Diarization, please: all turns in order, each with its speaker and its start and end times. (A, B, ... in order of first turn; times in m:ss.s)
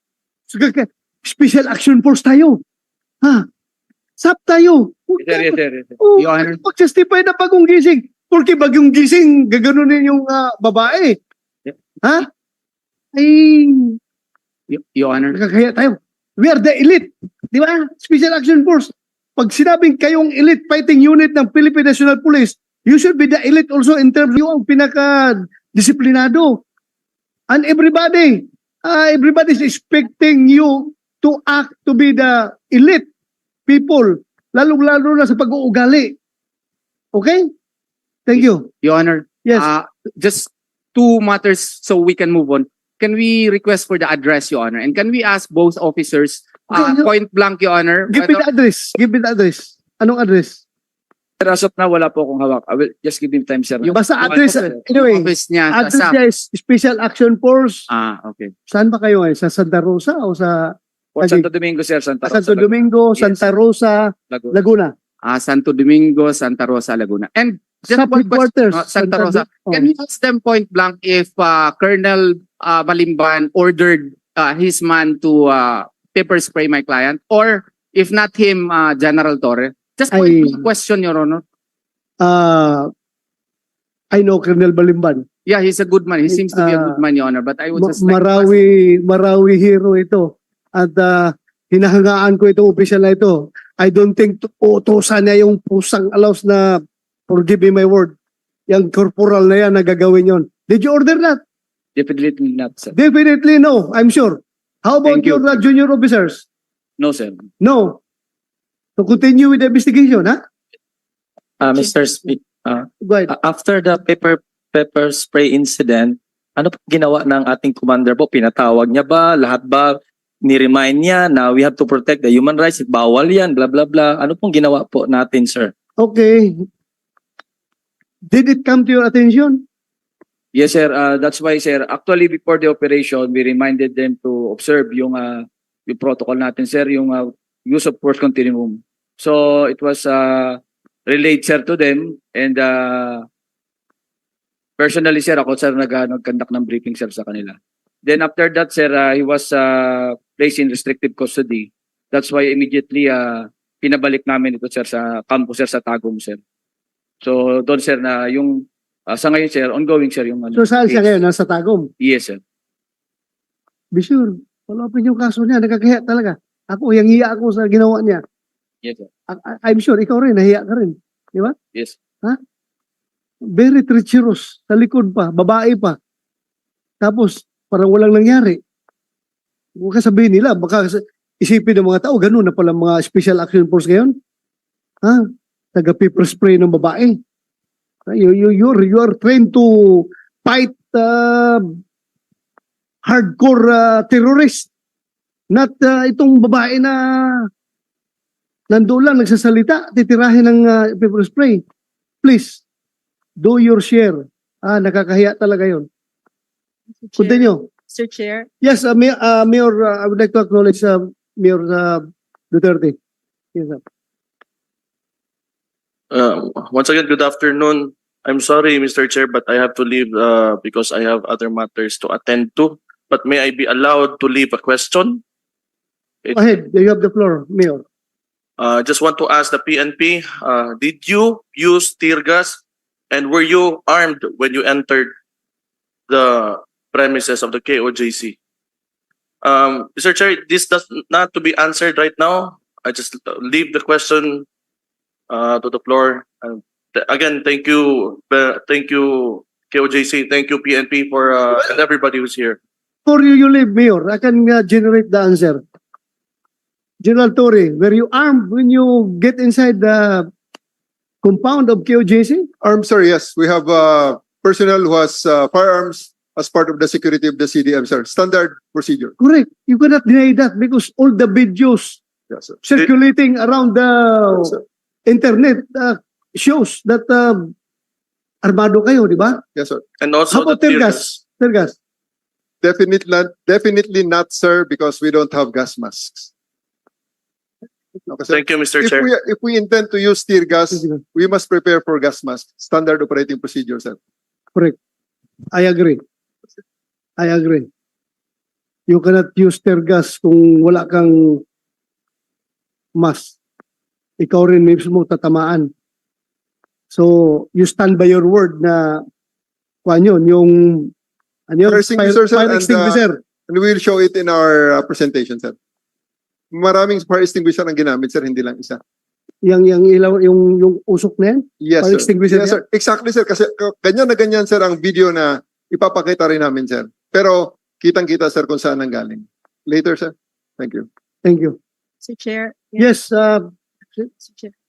0:00.5-0:02.6 A
0:04.2-0:11.2 A
0:05.2-0:06.0 B
0:06.2-0:06.6 C
0:13.1-0:14.0 A
0:14.7-0:15.4 C
0:15.3-0:26.6 A
0:27.5-0:33.0 A
0:33.7-0:36.2 A
0:37.1-0:37.5 A
0:38.3-0:38.7 A
0:38.4-0:48.4 C
0:46.7-0:47.1 A
0:48.1-0:50.6 A
0:51.4-0:54.8 B
0:53.8-0:56.2 C
0:53.9-0:57.8 A
0:57.9-0:58.5 C
0:58.7-1:01.5 A
1:01.2-1:03.4 B
1:02.2-1:04.9 A
1:05.2-1:21.4 C
1:07.9-1:09.9 A
1:20.1-1:20.6 A
1:22.2-1:22.9 A
1:24.1-1:25.2 A
1:25.4-1:28.7 C
1:26.3-1:27.0 A
1:27.8-1:38.1 A
1:38.7-1:41.4 A
1:42.0-1:42.9 B
1:42.9-1:46.4 A
1:45.0-1:45.6 B
1:47.0-1:47.5 B
1:47.6-1:48.0 A
1:49.0-1:50.4 A
1:51.6-2:05.7 D
1:53.0-1:53.3 A
2:06.0-2:06.6 A
2:08.3-2:09.6 A
2:10.5-2:23.3 B
2:24.8-2:36.4 B
2:37.2-2:41.2 B
2:40.5-2:41.9 A
2:42.0-2:42.4 B
2:43.9-2:48.2 A
2:48.8-2:49.1 B
2:49.3-2:51.6 A
2:53.5-2:56.0 A
2:57.0-2:58.6 A
2:59.8-3:04.1 A
3:05.0-3:07.2 A
3:08.1-3:11.8 A
3:13.0-3:14.7 A
3:15.5-3:17.5 A
3:18.7-3:21.6 A
3:22.2-3:22.6 A
3:23.4-3:25.9 A
3:27.0-3:28.5 E
3:27.2-3:27.6 A
3:28.6-3:33.0 A
3:33.5-3:33.8 A
3:36.1-3:45.2 F
3:46.3-3:47.8 A
3:48.6-3:55.1 F
3:56.1-3:58.4 F
3:59.4-4:04.4 F
4:05.3-4:12.6 F
4:13.0-4:15.6 A
4:17.0-4:20.3 A
4:21.2-4:22.5 A
4:22.6-4:29.1 G
4:29.2-4:32.0 A
4:32.3-4:32.8 G
4:32.6-4:34.6 A
4:34.3-4:34.6 G
4:35.1-4:37.5 A
4:38.4-4:39.4 A
4:39.6-4:39.8 G
4:40.0-4:41.1 F
4:40.3-4:41.8 A
4:42.6-4:46.3 G
4:48.1-4:54.0 G
4:48.3-4:49.1 F
4:50.7-4:51.0 A
4:55.5-4:56.0 A
4:57.2-4:57.7 A
4:58.9-5:01.4 A
5:03.0-5:03.4 A
5:04.2-5:05.7 A
5:06.9-5:09.0 A
5:09.8-5:10.9 A
5:11.5-5:13.2 A
5:11.6-5:15.5 G
5:16.5-5:18.8 G
5:19.4-5:22.6 A
5:21.6-5:30.9 G
5:31.2-5:31.6 A
5:32.0-5:32.9 E
5:32.8-5:33.5 A
5:34.0-5:34.5 E